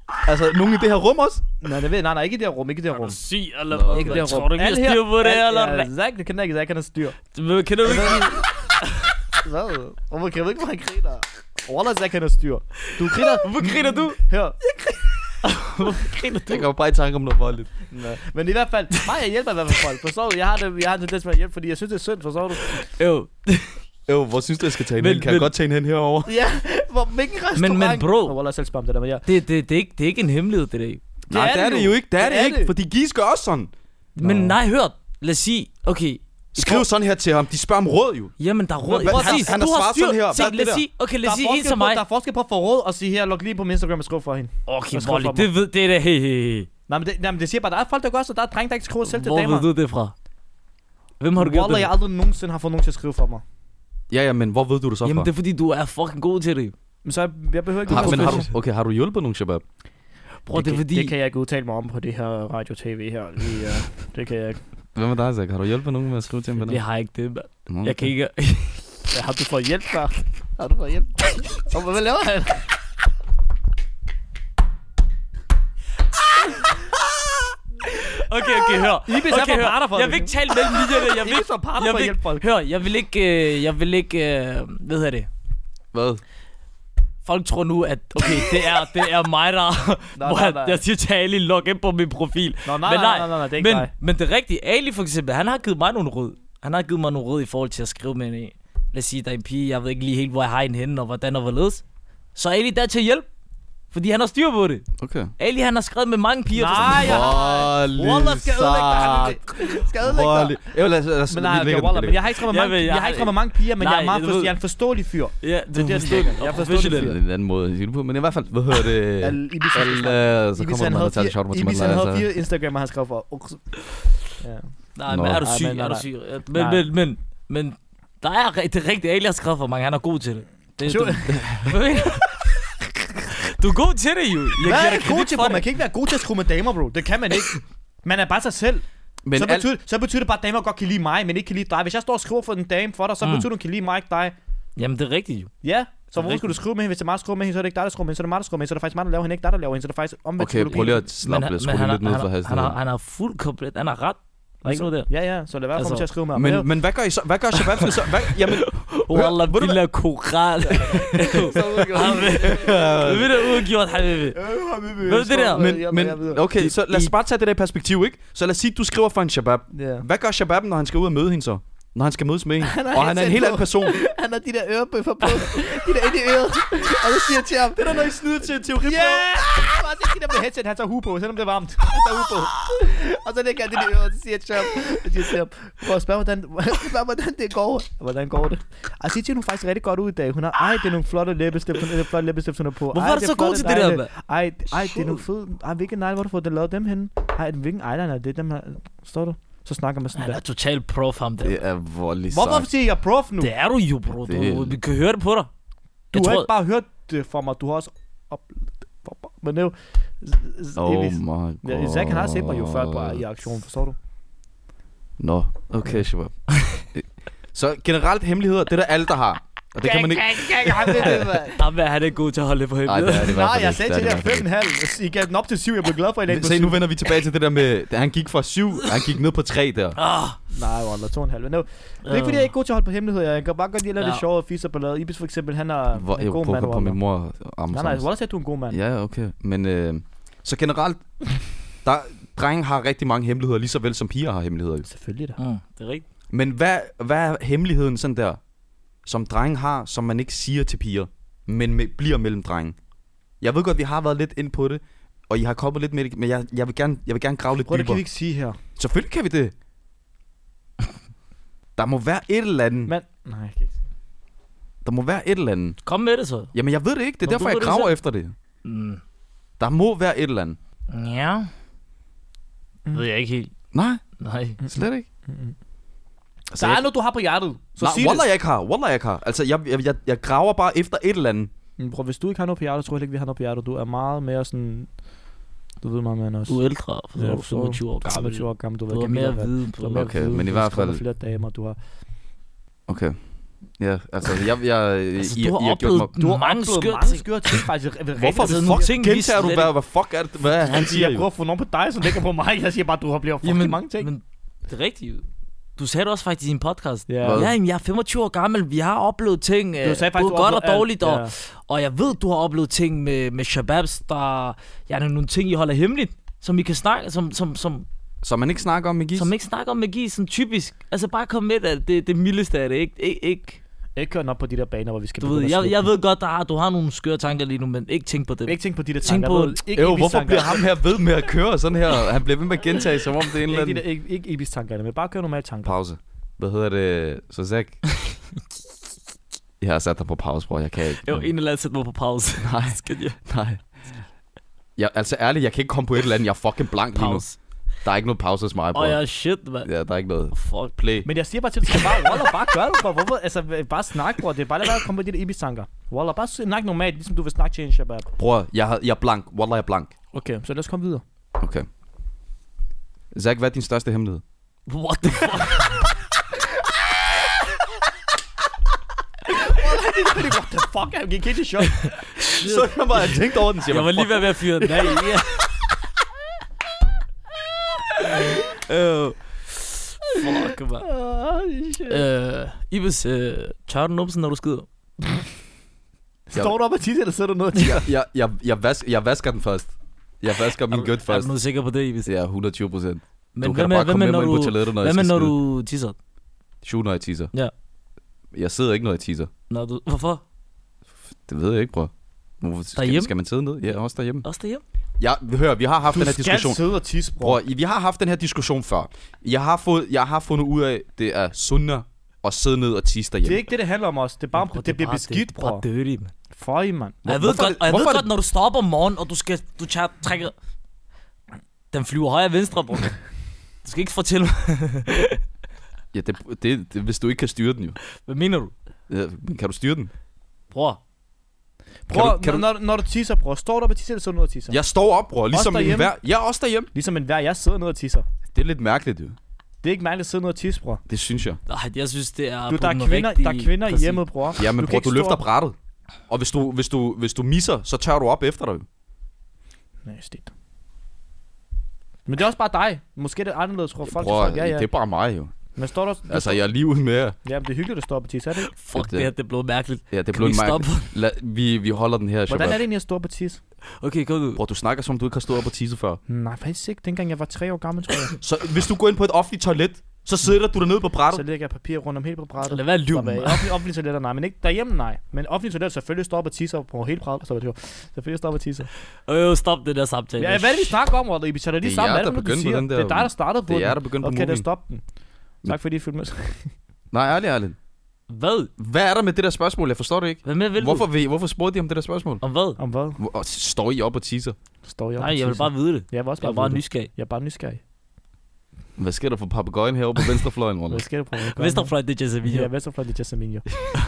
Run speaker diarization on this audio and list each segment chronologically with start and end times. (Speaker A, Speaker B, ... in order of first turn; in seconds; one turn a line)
Speaker A: 0.3-1.4
Speaker B: 1.6-3.2
Speaker C: 3.0-5.9
Speaker A: 3.7-4.3
Speaker B: 3.9-7.2
Speaker C: 7.3-9.1
Speaker B: 7.8-8.5
Speaker B: 9.4-14.6
Speaker C: 13.0-16.7
Speaker A: 16.5-17.7
Speaker B: 17.9-22.9
Speaker C: 22.8-23.8
Speaker A: 24.1-26.3
Speaker C: 25.0-25.5
Speaker B: 26.3-29.3
Speaker C: 27.6-28.4
Speaker C: 29.3-31.0
Speaker B: 31.3-32.7
Speaker A: 31.3-33.7
Speaker C: 34.2-36.9
Speaker B: 34.2-34.5
Speaker A: 34.2-34.5
Speaker A: 36.5-38.3
Speaker C: 38.4-42.0
Speaker B: 38.9-39.6
Speaker A: 39.0-40.8
Speaker B: 41.2-45.5
Speaker C: 44.7-46.7
Speaker B: 46.9-49.7
Speaker C: 49.1-50.1
Speaker C: 51.2-51.9
Speaker B: 51.4-53.4
Speaker A: 54.1-55.3
Speaker C: 55.0-56.7
Speaker B: 57.0-58.5
Speaker A: 57.9-59.6
Speaker C: 57.9-58.5
Speaker C: 60.5-61.1
Speaker B: 60.5-64.6
Speaker A: 65.0-66.8
Speaker C: 66.6-68.9
Speaker A: 67.7-68.1
Speaker B: 69.1-72.7
Speaker C: 77.9-85.3
Speaker B: 79.1-82.5
Speaker A: 85.9-86.2
Speaker C: 87.2-101.8
Speaker B: 90.2-90.8
Speaker B: 92.7-93.9
Speaker C: 102.4-103.3
Speaker C: 103.9-107.3
Speaker A: 105.0-105.3
Speaker B: 106.5-110.6
Speaker A: 106.8-112.2
Speaker B: 111.3-117.2
Speaker C: 112.5-114.5
Speaker C: 115.4-117.2
Speaker A: 116.9-122.3
Speaker B: 119.2-123.7
Speaker B: 124.4-124.7
Speaker C: 125.0-135.7
Speaker A: 125.1-125.5
Speaker B: 125.4-126.9
Speaker B: 130.8-131.5
Speaker A: 131.3-131.8
Speaker B: 134.6-138.8
Speaker A: 139.2-139.7
Speaker B: 139.3-144.4
Speaker C: 143.2-143.5
Speaker C: 144.8-145.5
Speaker B: 145.6-151.0
Speaker C: 146.1-146.5
Speaker A: 150.4-152.8
Speaker C: 151.2-155.1
Speaker B: 154.6-156.7
Speaker C: 155.8-156.1
Speaker A: 156.3-159.8
Speaker C: 157.6-164.4
Speaker B: 160.7-162.9
Speaker A: 161.2-163.5
Speaker B: 164.3-166.4
Speaker C: 165.0-165.7
Speaker A: 165.6-174.0
Speaker C: 166.6-167.1
Speaker B: 169.7-170.1
Speaker B: 172.6-178.2
Speaker A: 177.7-179.4
Speaker B: 178.8-200.4
Speaker C: 192.9-194.1
Speaker C: 194.8-195.2
Speaker C: 200.2-201.6
Speaker A: 201.4-202.7
Speaker B: 202.3-203.5
Speaker C: 203.4-205.5
Speaker A: 204.3-204.8
Speaker C: 206.1-206.5
Speaker B: 206.1-214.0
Speaker A: 210.8-213.2
Speaker A: 215.2-216.4
Speaker A: 216.9-221.4
Speaker B: 219.8-221.6
Speaker C: 221.1-223.4
Speaker A: 222.9-224.5
Speaker B: 223.2-226.8
Speaker A: 226.3-230.0
Speaker C: 230.0-230.4
Speaker B: 230.5-237.0
Speaker C: 232.1-232.5
Speaker A: 235.9-238.1
Speaker B: 237.7-238.8
Speaker A: 238.7-241.1
Speaker A: 241.8-244.9
Speaker B: 244.9-245.4
Speaker C: 245.4-246.0
Speaker A: 246.3-248.4
Speaker A: 249.1-252.8
Speaker A: 253.4-258.0
Speaker B: 257.6-258.6
Speaker A: 258.8-259.5
Speaker A: 261.8-262.9
Speaker B: 262.9-263.8
Speaker A: 264.8-265.8
Speaker C: 265.9-266.5
Speaker A: 266.5-268.3
Speaker C: 267.2-267.9
Speaker C: 268.6-269.0
Speaker A: 269.6-270.6
Speaker C: 270.9-271.5
Speaker C: 272.9-273.5
Speaker A: 273.7-274.0
Speaker C: 274.2-274.6
Speaker A: 274.6-275.1
Speaker B: 275.3-275.6
Speaker A: 276.5-276.9
Speaker B: 276.6-278.3
Speaker A: 277.8-281.5
Speaker B: 281.8-284.9
Speaker B: 285.8-286.6
Speaker C: 286.5-290.5
Speaker B: 287.2-291.8
Speaker A: 289.9-291.0
Speaker A: 292.9-293.2
Speaker A: 293.8-296.1
Speaker C: 295.2-297.3
Speaker B: 296.2-298.9
Speaker A: 298.2-301.2
Speaker C: 298.3-299.7
Speaker B: 300.7-304.1
Speaker C: 303.4-305.2
Speaker C: 305.8-317.9
Speaker B: 307.1-307.4
Speaker A: 307.2-307.6
Speaker B: 309.8-311.3
Speaker A: 318.2-319.3
Speaker C: 319.2-323.6
Speaker B: 324.0-325.9
Speaker C: 325.2-329.6
Speaker B: 328.5-330.7
Speaker A: 329.7-333.8
Speaker B: 333.5-335.8
Speaker A: 335.6-337.8
Speaker A: 339.6-341.3
Speaker C: 341.1-343.2
Speaker A: 342.4-343.6
Speaker A: 344.8-347.2
Speaker C: 346.9-347.4
Speaker A: 347.8-349.0
Speaker C: 348.7-349.7
Speaker A: 349.6-351.1
Speaker C: 350.3-350.8
Speaker B: 351.1-358.1
Speaker C: 351.8-352.3
Speaker A: 358.2-359.9
Speaker B: 360.1-361.0
Speaker A: 361.4-361.7
Speaker A: 363.1-364.2
Speaker C: 364.7-365.8
Speaker B: 369.3-371.9
Speaker C: 371.8-375.5
Speaker A: 372.2-374.3
Speaker B: 374.7-375.2
Speaker C: 378.0-380.9
Speaker B: 380.8-382.0
Speaker C: 381.9-384.7
Speaker B: 386.3-387.9
Speaker A: 387.6-391.3
Speaker C: 390.7-392.1
Speaker A: 392.1-395.4
Speaker C: 393.4-395.9
Speaker A: 396.6-397.3
Speaker A: 398.3-399.3
Speaker C: 399.5-400.2
Speaker A: 401.3-404.3
Speaker C: 402.8-403.1
Speaker C: 404.2-404.6
Speaker A: 405.0-406.6
Speaker B: 405.9-407.4
Speaker A: 407.2-413.4
Speaker B: 413.2-415.6
Speaker C: 414.4-416.1
Speaker B: 416.4-417.0
Speaker A: 417.1-418.1
Speaker C: 417.1-420.3
Speaker C: 421.7-423.0
Speaker C: 423.6-425.2
Speaker A: 425.9-427.8
Speaker C: 428.0-428.5
Speaker A: 428.9-429.9
Speaker C: 430.5-430.8
Speaker B: 431.9-434.6
Speaker A: 431.9-432.5
Speaker A: 434.5-436.7
Speaker B: 435.3-435.9
Speaker B: 436.7-438.1
Speaker A: 438.3-439.2
Speaker B: 439.6-440.8
Speaker A: 440.9-441.4
Speaker C: 441.5-444.0
Speaker B: 442.5-445.2
Speaker A: 444.4-445.6
Speaker A: 446.1-448.7
Speaker B: 449.9-450.3
Speaker B: 452.1-454.7
Speaker A: 453.8-455.3
Speaker B: 455.6-456.4
Speaker A: 456.1-457.2
Speaker B: 457.2-458.5
Speaker C: 458.5-460.9
Speaker A: 458.7-459.1
Speaker A: 459.9-462.6
Speaker B: 462.3-463.4
Speaker C: 463.8-464.4
Speaker A: 464.4-466.0
Speaker B: 466.1-468.2
Speaker A: 468.2-471.2
Speaker B: 471.1-478.7
Speaker C: 472.5-473.6
Speaker C: 479.1-480.8
Speaker B: 480.2-484.8
Speaker A: 481.6-484.5
Speaker B: 485.4-486.5
Speaker A: 486.9-487.6
Speaker C: 488.1-488.5
Speaker A: 488.6-492.2
Speaker C: 490.2-490.9
Speaker C: 492.2-492.6
Speaker B: 492.6-493.0
Speaker A: 493.0-494.4
Speaker B: 494.6-497.6
Speaker C: 495.0-496.9
Speaker A: 498.8-500.8
Speaker B: 500.7-503.5
Speaker C: 501.4-502.5